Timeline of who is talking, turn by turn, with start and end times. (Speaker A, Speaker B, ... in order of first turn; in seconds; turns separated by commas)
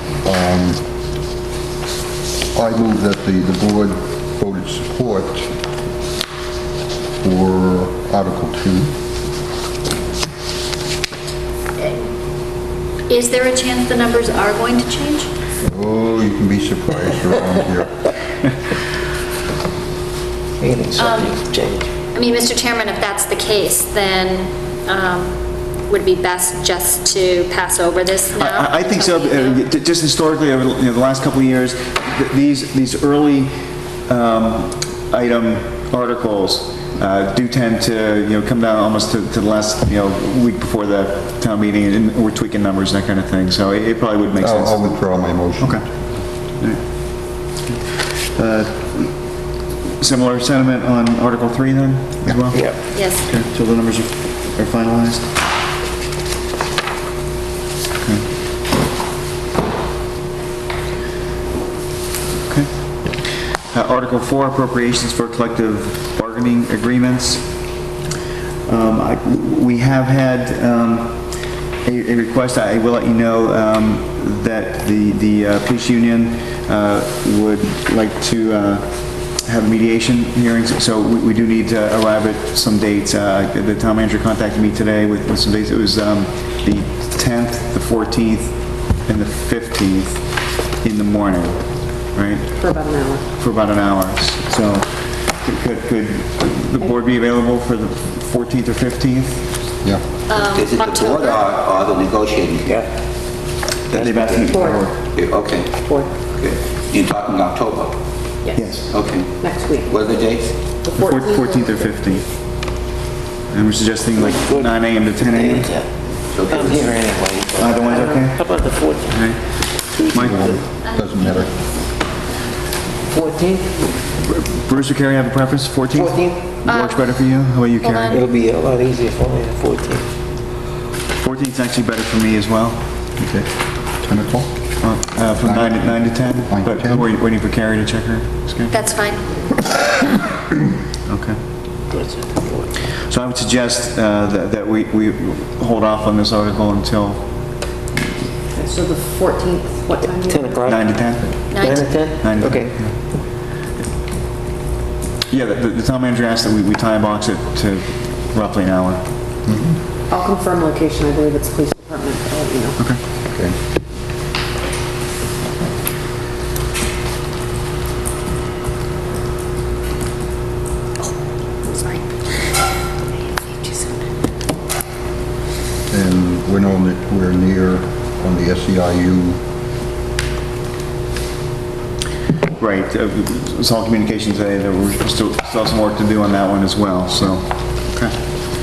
Speaker A: 0.2-0.8, Speaker A: 2.5-5.5, Speaker A: 7.2-8.9, Speaker B: 11.8-12.1, Speaker B: 13.1-15.3, Speaker A: 15.6-18.0, Speaker C: 20.6-21.9, Speaker B: 21.0-21.4, Speaker B: 22.1-25.3, Speaker B: 25.9-29.6, Speaker D: 28.3-33.5, Speaker D: 34.0-44.8, Speaker A: 44.4-45.8, Speaker D: 46.6-49.2, Speaker D: 50.0-55.3, Speaker C: 52.5-52.8, Speaker B: 52.9-53.2, Speaker D: 63.7-67.5, Speaker D: 68.7-71.2, Speaker D: 71.8-90.2, Speaker D: 90.8-92.6, Speaker E: 92.6-93.2, Speaker D: 93.4-99.5, Speaker B: 100.3-101.6, Speaker F: 100.3-102.8, Speaker C: 103.9-104.5, Speaker D: 104.0-104.9, Speaker F: 104.3-108.0, Speaker E: 104.5-104.8, Speaker E: 105.8-106.2, Speaker D: 108.5-108.9, Speaker F: 108.9-110.5, Speaker E: 109.3-109.9, Speaker E: 110.8-111.8, Speaker D: 111.0-112.2, Speaker D: 113.5-115.7, Speaker C: 114.2-115.9, Speaker F: 116.3-116.9, Speaker C: 116.5-120.6, Speaker D: 117.5-120.6, Speaker A: 120.1-121.5, Speaker C: 123.1-123.9, Speaker D: 124.2-128.2, Speaker C: 125.9-126.4, Speaker B: 126.7-127.2, Speaker B: 127.8-128.2, Speaker C: 128.1-130.1, Speaker D: 131.2-132.8, Speaker A: 133.2-133.5, Speaker A: 134.0-134.5, Speaker D: 134.8-138.8, Speaker A: 135.4-137.1, Speaker B: 138.7-139.2, Speaker D: 141.1-141.4, Speaker C: 141.9-142.7, Speaker D: 143.1-147.3, Speaker E: 148.5-150.6, Speaker C: 150.2-152.8, Speaker D: 150.6-153.0, Speaker B: 151.5-152.0, Speaker D: 155.3-159.0, Speaker A: 159.4-159.8, Speaker E: 160.1-162.8, Speaker E: 171.6-172.1, Speaker E: 173.3-174.0, Speaker A: 175.9-179.4, Speaker D: 182.6-188.1